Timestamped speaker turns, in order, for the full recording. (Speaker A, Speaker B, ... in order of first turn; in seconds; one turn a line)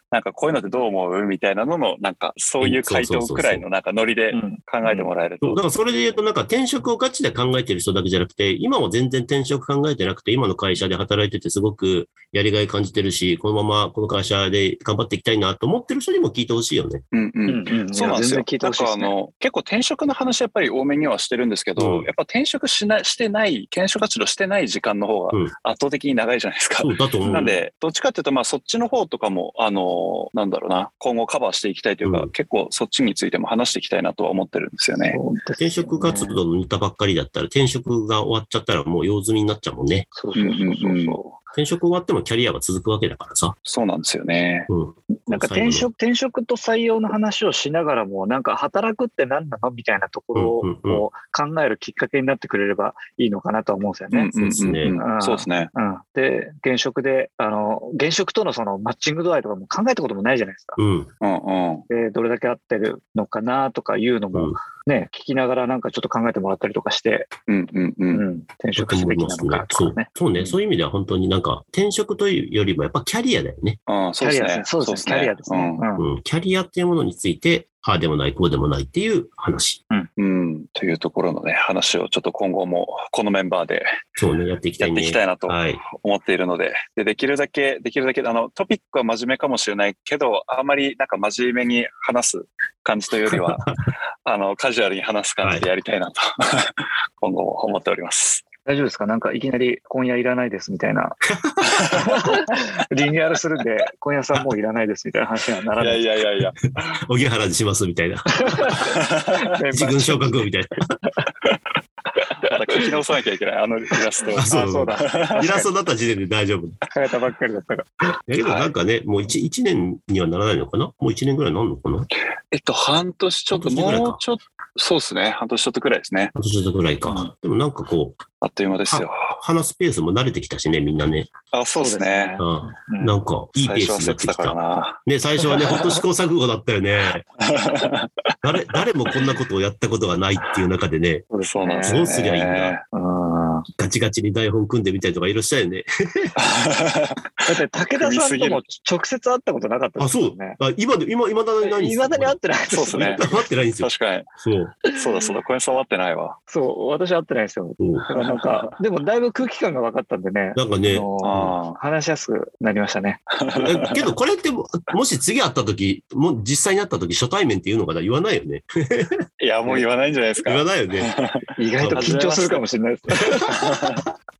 Speaker A: 0.1-5.6
Speaker B: 2.6-3.6
Speaker C: 4.3-5.1
Speaker B: 5.4-17.0
Speaker A: 17.1-35.2
Speaker C: 17.5-19.1
Speaker B: 21.8-22.1
Speaker B: 26.8-27.5
Speaker C: 27.2-27.6
Speaker B: 32.0-32.3
Speaker C: 35.1-36.4
Speaker B: 35.6-40.1
Speaker C: 40.1-41.4
Speaker A: 40.3-41.2
Speaker B: 41.5-43.5
Speaker A: 43.6-44.7
Speaker B: 44.7-45.9
Speaker C: 45.1-54.3
Speaker B: 50.3-51.0
Speaker A: 54.1-55.7
Speaker B: 54.3-55.0
Speaker C: 54.9-60.8
Speaker B: 60.8-61.1
Speaker A: 61.2-61.9
Speaker C: 61.9-67.3
Speaker A: 67.5-68.2
Speaker C: 68.1-70.1
Speaker B: 68.8-73.8
Speaker A: 73.9-75.8
Speaker C: 74.2-76.1
Speaker B: 76.0-79.8
Speaker A: 80.2-83.9
Speaker B: 84.2-85.8
Speaker A: 84.8-93.7
Speaker A: 94.2-98.4
Speaker B: 95.4-95.7
Speaker C: 98.7-101.2
Speaker B: 101.4-102.0
Speaker A: 101.8-102.2
Speaker C: 101.9-106.1
Speaker A: 105.8-106.6
Speaker B: 106.9-108.8
Speaker C: 108.4-110.4
Speaker A: 108.9-109.4
Speaker B: 109.7-111.0
Speaker A: 112.4-115.5
Speaker C: 114.3-115.7
Speaker B: 114.3-116.8
Speaker C: 116.9-118.7
Speaker B: 118.3-122.1
Speaker A: 122.5-126.3
Speaker B: 123.5-124.2
Speaker B: 126.3-128.2
Speaker A: 128.4-129.3
Speaker B: 128.9-131.3
Speaker A: 131.5-132.3
Speaker C: 131.8-133.2
Speaker B: 132.4-137.2
Speaker A: 133.6-135.6
Speaker A: 137.4-138.1
Speaker B: 138.4-141.3
Speaker C: 141.3-142.1
Speaker A: 141.4-142.8
Speaker B: 141.8-142.8
Speaker C: 142.9-143.7
Speaker B: 143.8-146.3
Speaker A: 146.4-148.6
Speaker C: 147.5-150.6
Speaker B: 150.0-152.4
Speaker C: 151.6-153.4
Speaker A: 152.7-153.2
Speaker B: 152.9-154.8
Speaker A: 153.8-154.3
Speaker A: 154.9-156.3
Speaker C: 156.5-163.2
Speaker B: 157.8-158.1
Speaker A: 158.1-158.7
Speaker B: 160.6-161.6
Speaker A: 161.2-161.8
Speaker A: 163.4-164.1
Speaker B: 163.6-169.2
Speaker A: 169.4-171.4
Speaker B: 170.4-171.1
Speaker C: 171.6-174.0
Speaker B: 171.8-172.1
Speaker A: 171.9-172.6
Speaker A: 173.2-174.0